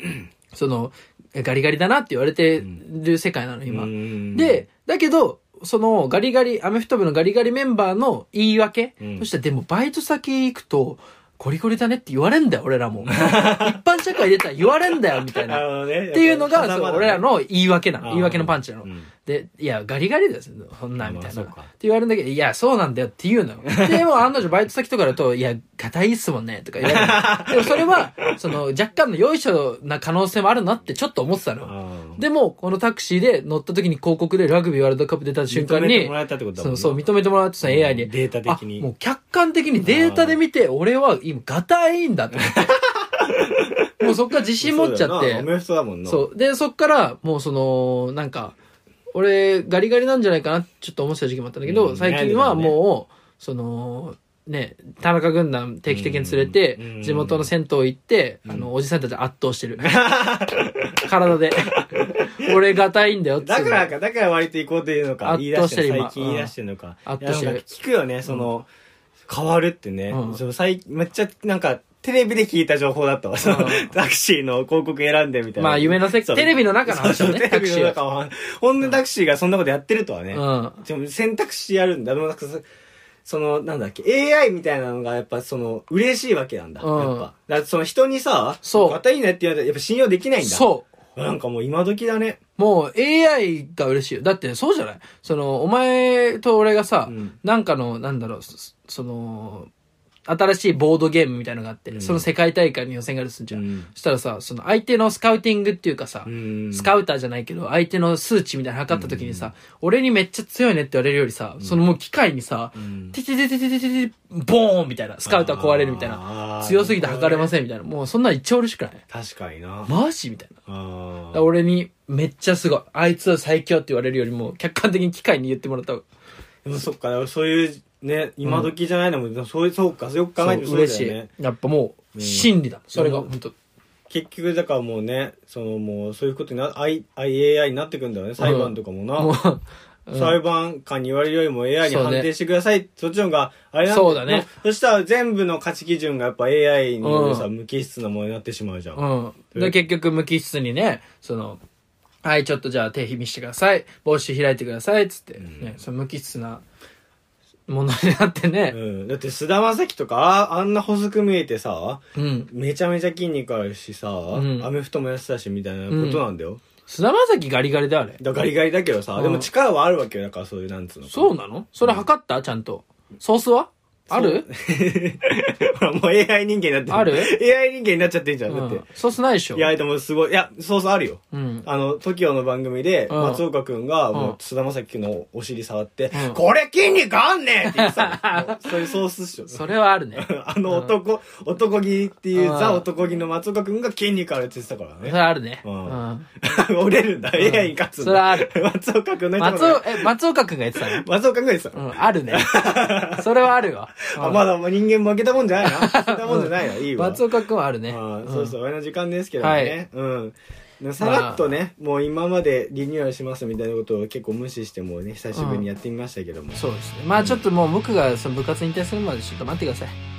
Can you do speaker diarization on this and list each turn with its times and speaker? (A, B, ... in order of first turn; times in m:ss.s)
0:00.5-0:42.6 A
0:03.7-0:04.6 B
0:09.0-0:09.3 B
0:13.0-0:13.8 B
0:15.4-0:17.3 B
0:18.0-0:19.1 B
0:21.0-0:21.7 B
0:23.7-0:24.1 B
0:26.8-0:28.5 B
0:31.6-0:32.2 B
0:35.5-0:37.1 B
0:37.6-0:38.9 B
0:39.8-0:40.4 B
0:42.4-0:46.3 B
0:44.0-0:45.5 A
0:46.1-0:48.6 A
0:49.1-1:00.0 A
0:51.6-0:52.8 B
0:55.9-0:57.5 B
0:59.8-1:01.1 B
1:01.0-1:03.9 A
1:01.8-1:02.6 B
1:03.4-1:08.7 B
1:05.2-1:06.5 A
1:07.1-1:07.6 A
1:09.3-1:22.7 B
1:10.1-1:10.4 A
1:13.4-1:14.0 A
1:15.6-1:18.0 A
1:20.3-1:20.8 A
1:23.2-1:32.4 B
1:26.8-1:27.3 A
1:28.6-1:29.0 A
1:30.4-1:30.9 A
1:32.6-1:39.7 A
1:37.1-1:37.4 B
1:40.3-1:59.0 A
1:41.9-1:42.3 B
1:43.5-1:43.9 B
1:46.3-1:46.9 B
1:48.9-1:49.5 B
1:51.6-1:51.8 B
1:52.8-1:53.2 B
1:55.2-1:57.5 B
1:59.1-1:59.9 B
1:59.9-2:00.6 A
2:00.7-2:01.5 B
2:01.3-2:06.0 A
2:06.6-2:11.3 B
2:10.4-2:13.5 A
2:12.2-2:13.3 B
2:14.1-2:19.4 B
2:18.4-2:20.4 A
2:20.2-2:29.0 B
2:21.8-2:22.3 A
2:23.9-2:24.5 A
2:27.0-2:27.5 A
2:29.0-2:31.6 A
2:32.2-2:36.6 A
2:35.4-2:35.8 B
2:37.7-2:38.8 A
2:38.7-2:46.6 B
2:42.2-2:42.5 A
2:44.3-2:44.7 A
2:45.9-2:46.2 A
2:46.9-2:48.2 A
2:48.2-2:52.1 B
2:49.2-2:49.5 A
2:51.1-2:54.5 A
2:54.1-2:58.8 B
2:56.9-2:57.4 A
2:58.5-2:59.7 A
2:59.6-3:20.1 B
3:01.3-3:01.7 A
3:03.1-3:03.4 A
3:06.1-3:06.4 A
3:07.7-3:11.0 A
3:12.4-3:12.9 A
3:15.0-3:16.3 A
3:17.4-3:18.5 A
3:19.4-3:21.0 A
3:20.8-3:21.8 B
3:21.7-3:24.4 A
3:22.3-3:23.5 B
3:24.1-3:27.2 B
3:25.6-3:28.6 A
3:27.9-3:36.6 B
3:29.4-3:29.8 A
3:31.0-3:31.4 A
3:35.3-3:35.6 A
3:36.6-3:40.0 A
3:37.2-3:37.4 B